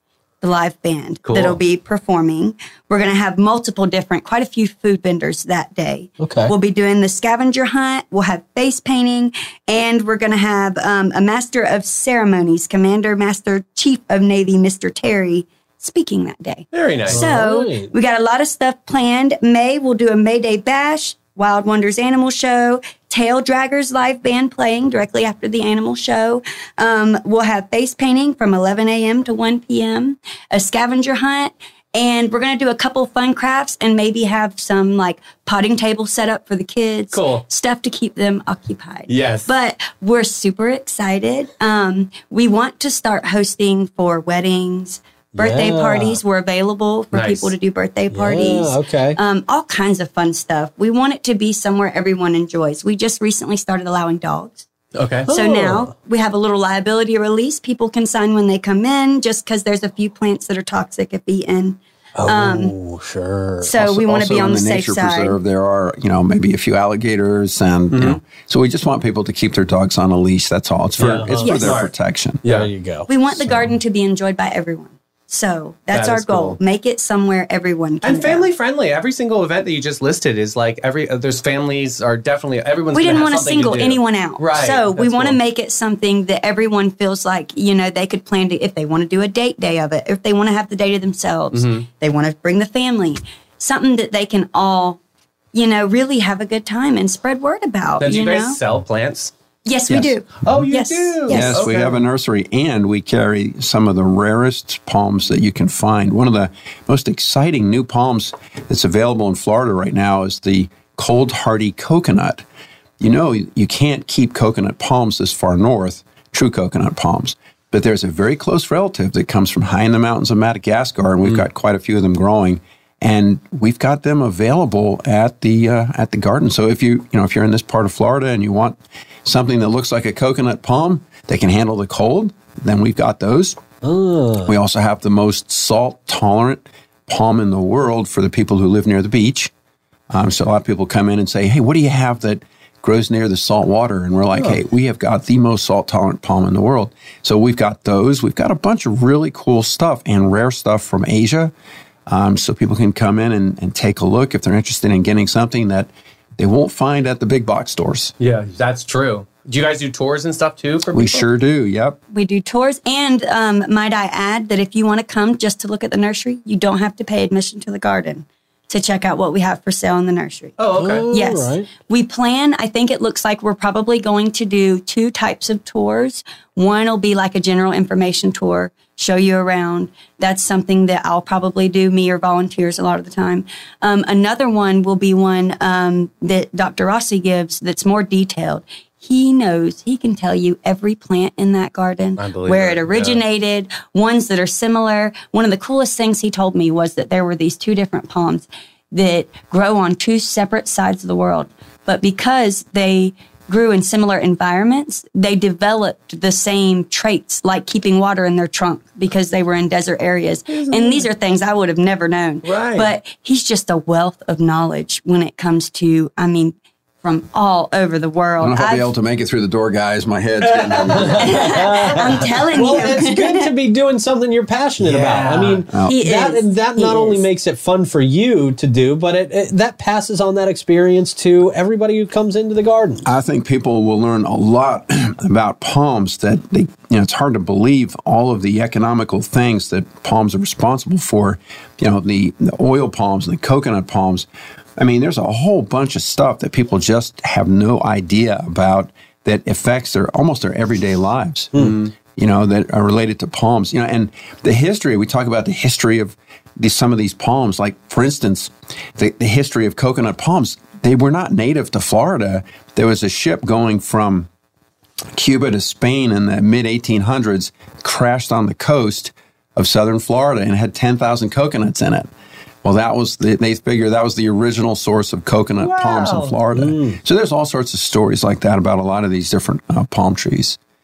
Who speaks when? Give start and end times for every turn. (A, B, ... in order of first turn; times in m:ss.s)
0:00.4-0:54.7 A
0:01.3-0:01.6 B
0:06.2-0:06.5 C
0:16.7-0:17.4 B
0:17.1-0:17.9 C
0:37.1-0:37.4 B
0:39.1-0:39.5 B
0:45.3-0:46.2 C
0:47.1-0:47.5 B
0:48.1-0:49.2 C
0:55.0-0:55.3 B
0:55.3-0:55.9 C
0:55.3-1:02.7 A
1:02.2-1:03.7 C
1:03.6-1:05.4 A
1:03.7-1:12.4 D
1:07.9-1:08.2 B
1:11.0-1:11.9 B
1:11.0-1:11.6 C
1:11.4-1:11.8 A
1:12.4-1:12.7 B
1:12.5-1:13.1 C
1:13.1-1:18.5 A
1:13.4-1:13.7 D
1:15.9-1:16.6 B
1:18.0-1:25.4 B
1:22.9-1:35.0 A
1:31.5-1:31.8 B
1:35.5-1:38.6 A
1:38.0-1:39.3 B
1:39.7-1:41.6 A
1:40.4-1:42.0 B
1:41.3-1:52.4 D
1:53.0-2:13.6 D
2:13.8-2:14.5 C
2:14.5-2:19.5 D
2:20.1-2:31.5 D
2:32.1-2:38.1 D
2:38.2-2:41.3 B
2:40.9-2:42.0 D
2:42.1-2:50.6 A
2:50.6-2:51.1 B
2:50.8-2:51.7 C
2:51.1-3:38.9 A
3:12.2-3:13.2 B
3:30.5-3:31.1 B
3:32.4-3:32.9 B
3:38.4-3:41.6 D
3:40.4-3:42.5 B
3:41.2-3:43.5 A
3:41.4-3:53.1 C
3:44.8-3:45.6 B
3:45.7-3:46.0 D
3:45.8-3:47.2 A
3:53.0-4:24.3 D
4:11.6-4:11.9 B
4:25.2-4:32.1 D
4:32.6-4:40.6 D
4:35.6-4:36.4 B
4:36.6-4:37.0 C